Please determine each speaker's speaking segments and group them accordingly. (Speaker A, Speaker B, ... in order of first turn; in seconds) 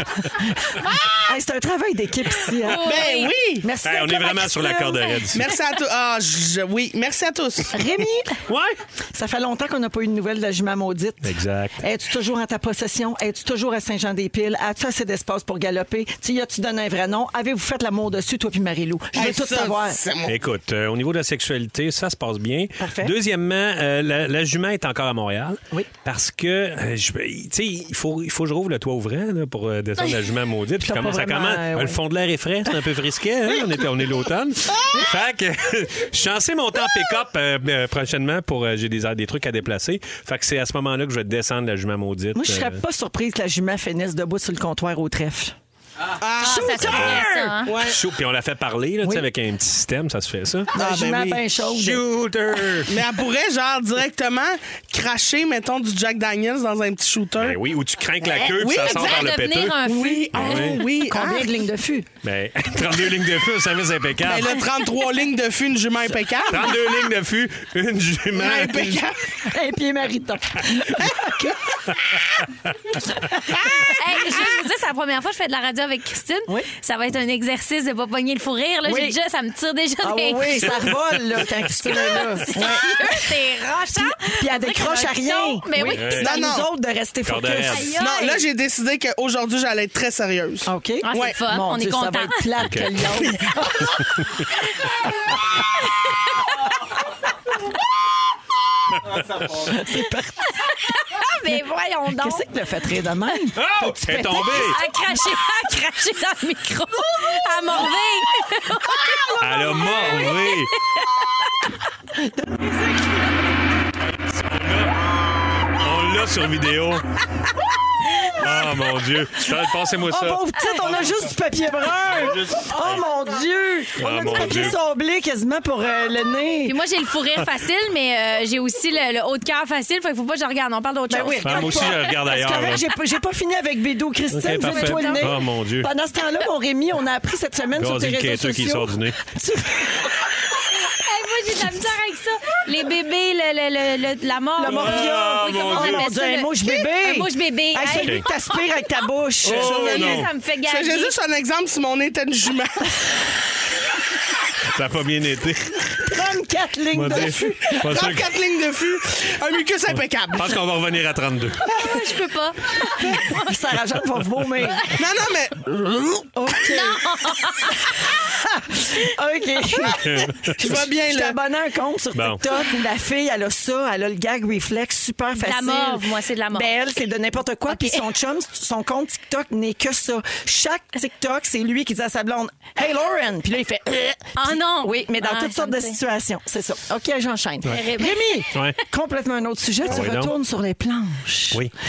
Speaker A: 0.2-0.7, 1.3-5.2, 7.7-8.4, 9.1-20.0, 22.8-23.1, 30.8-32.0, 42.4-45.6, 46.4-47.6, 50.7-52.0, 61.0-62.1, 69.5-71.8, 73.1-73.9, 78.8-79.2, 80.0-87.9, 90.7-94.2, 99.5-100.7, 101.5-104.8, 112.2-113.3, 120.1-126.8, 131.1-140.3, 144.6-149.9, 156.0-158.0, 161.7-162.1, 163.0-164.8, 166.3-167.1, 168.1-191.6
Speaker B: 0.8-1.3, 2.8-3.7, 5.3-7.9, 19.1-20.4, 46.2-47.1, 47.6-48.0, 50.8-51.4, 52.9-57.6, 58.2-59.2, 59.8-61.6, 64.2-66.8, 68.4-69.2, 82.2-82.4, 86.2-86.7, 88.0-91.4, 149.6-152.9, 157.9-160.6, 164.9-166.2, 170.6-171.4
Speaker C: 2.6-3.4, 46.4-47.7, 58.8-60.6, 73.8-80.7, 81.9-86.2, 87.7-88.4, 91.0-92.5, 100.7-102.5, 104.5-111.1, 126.7-132.2, 134.6-135.3, 140.8-149.0, 149.7-151.2, 161.8-163.5, 166.7-167.8, 175.4-176.7, 177.7-178.0, 184.4-186.0, 187.7-188.5
Speaker D: 3.8-5.4, 8.5-8.7, 11.2-11.8, 20.3-42.8, 46.8-47.3, 47.8-50.8, 51.7-52.9, 57.4-59.8, 60.3-60.8, 62.2-64.6, 66.5-69.0, 80.6-81.8, 85.8-86.3, 87.2-87.9, 92.6-92.9, 94.0-94.3, 103.6-104.8, 109.4-110.7, 114.2-114.9, 115.8-117.1, 118.3-121.1, 122.2-122.7, 124.0-124.8, 131.4-132.8, 134.3-135.9, 137.8-139.2, 144.7-146.1, 149.4-150.3, 154.7-156.0, 156.9-158.4, 159.9-161.6, 170.0-170.6, 172.2-172.4, 189.9-190.3